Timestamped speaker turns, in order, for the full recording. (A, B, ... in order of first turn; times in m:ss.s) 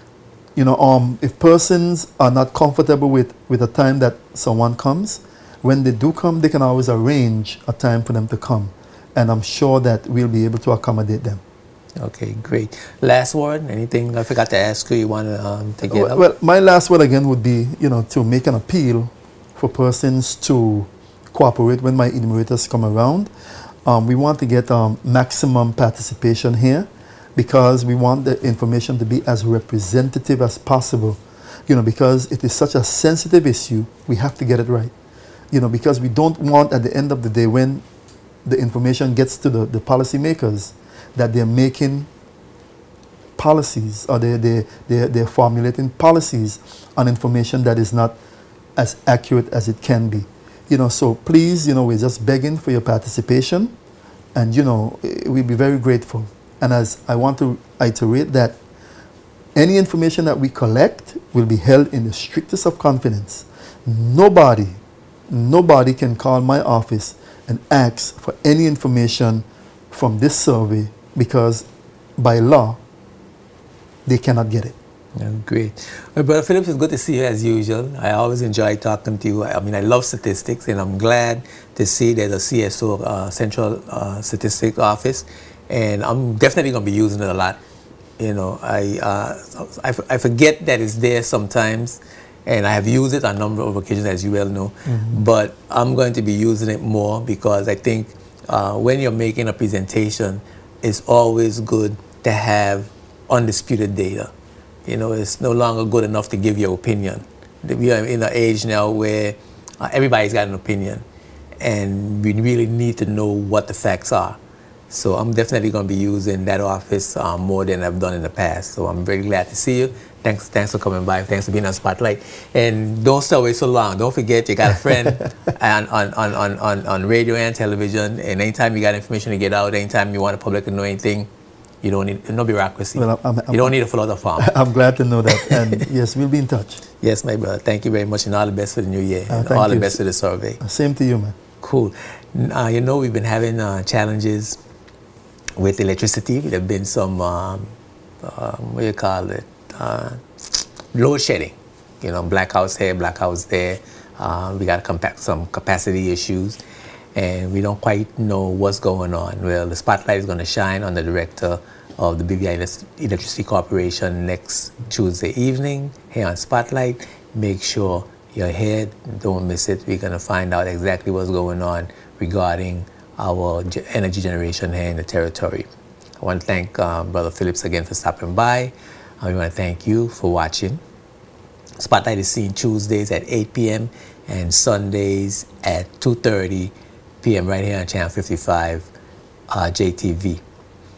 0:00.6-0:11.4 A
0:12.0-0:16.2 B
0:15.9-0:23.3 A
0:23.8-0:34.9 A
0:35.5-0:37.8 A
0:38.4-0:42.1 A
0:43.4-0:48.2 A
0:48.8-0:53.7 A
0:54.3-0:58.6 A
0:59.6-1:12.8 A
1:14.0-1:14.7 A
1:15.2-1:27.6 B
1:28.2-1:44.3 B
1:34.9-1:35.2 A
1:44.8-1:51.0 B
1:51.6-1:54.4 B
1:54.9-2:11.3 B
2:11.8-2:14.5 B
2:13.0-2:13.7 A
2:14.4-2:16.8 A
2:15.3-2:15.8 B
2:17.0-2:20.6 B
2:19.3-2:20.0 A
2:20.6-2:21.4 A
2:21.6-2:24.6 B
2:25.6-2:36.6 B
2:37.1-2:55.7 B
2:56.2-3:00.8 B
3:01.8-3:08.9 B
3:09.5-3:10.4 B